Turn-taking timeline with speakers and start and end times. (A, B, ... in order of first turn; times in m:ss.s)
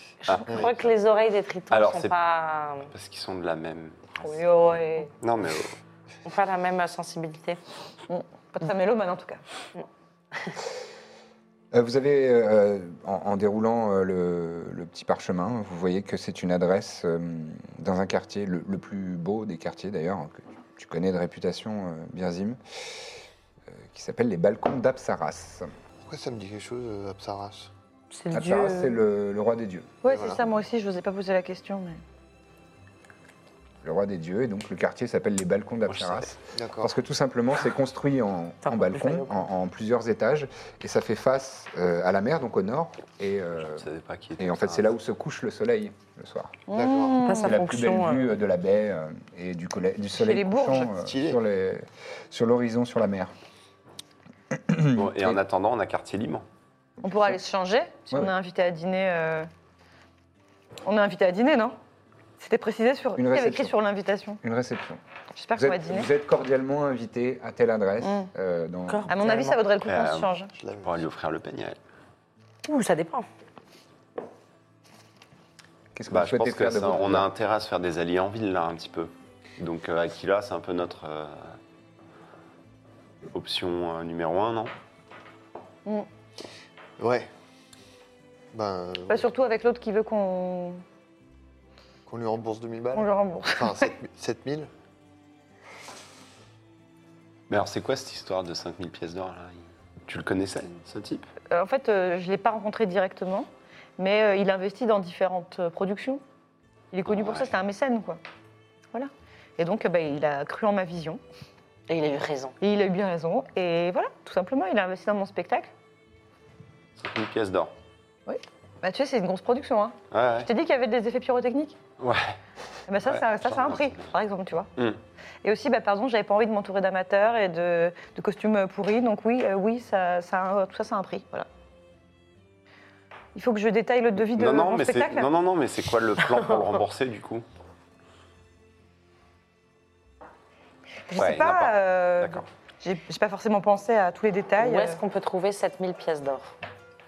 0:00.3-0:00.7 A
0:00.3-0:02.9 B
0:01.7-0:02.2 A
0:02.9-0:04.0 A
0:04.2-0:05.1 C
0:05.2-0:05.8 A
0:06.2-0:07.6 B
0:08.1-0:09.4 C
0:11.7-0:23.2 D
0:23.7-0:25.7 D
0:26.0-0:27.7 E
0:28.1-0:29.0 B
0:28.3-0:29.9 D
0:30.0-0:32.0 C
0:30.1-0:30.5 E
0:33.8-0:43.8 D
0:35.9-0:36.3 A
0:36.5-0:36.9 E
0:38.6-0:39.5 B
0:43.6-0:44.9 A
0:44.4-0:46.6 D
0:46.7-0:47.6 C
0:46.7-0:47.2 E
0:47.2-0:48.3 B
0:47.4-0:53.3 D
0:50.1-0:50.9 C
0:51.0-0:51.4 E
0:54.5-0:55.4 D
0:54.9-0:56.4 A
0:57.0-0:59.5 C
1:00.8-1:01.8 C
1:02.4-1:04.4 C
1:03.2-1:03.7 D
1:04.4-1:05.0 D
1:05.4-1:06.1 C
1:05.6-1:09.1 D
1:08.0-1:08.3 C
1:08.9-1:09.6 B
1:09.1-1:10.5 C
1:09.8-1:10.3 A
1:10.5-1:11.0 E
1:10.8-1:11.8 A
1:12.7-1:13.3 B
1:16.0-1:17.3 D
1:16.1-1:21.6 A
1:23.3-1:24.7 A
1:27.0-1:27.3 E
1:28.5-1:29.3 E
1:29.1-1:30.8 C
1:32.1-1:34.7 E
1:33.0-1:33.9 C
1:37.5-1:41.3 A
1:41.5-1:46.2 C
1:46.9-1:48.2 C
1:47.1-1:47.5 A
1:48.9-1:51.2 C
1:51.9-1:52.6 B
1:52.6-1:55.7 C
1:57.0-1:57.7 A
1:58.3-2:01.8 C
2:00.1-2:00.5 A
2:02.0-2:02.3 A
2:02.9-2:04.7 C
2:03.0-2:04.1 A
2:05.4-2:11.5 C
2:13.4-2:15.3 C
2:14.2-2:17.4 A
2:21.1-2:25.0 C
2:21.1-2:22.4 A
2:24.6-2:26.5 B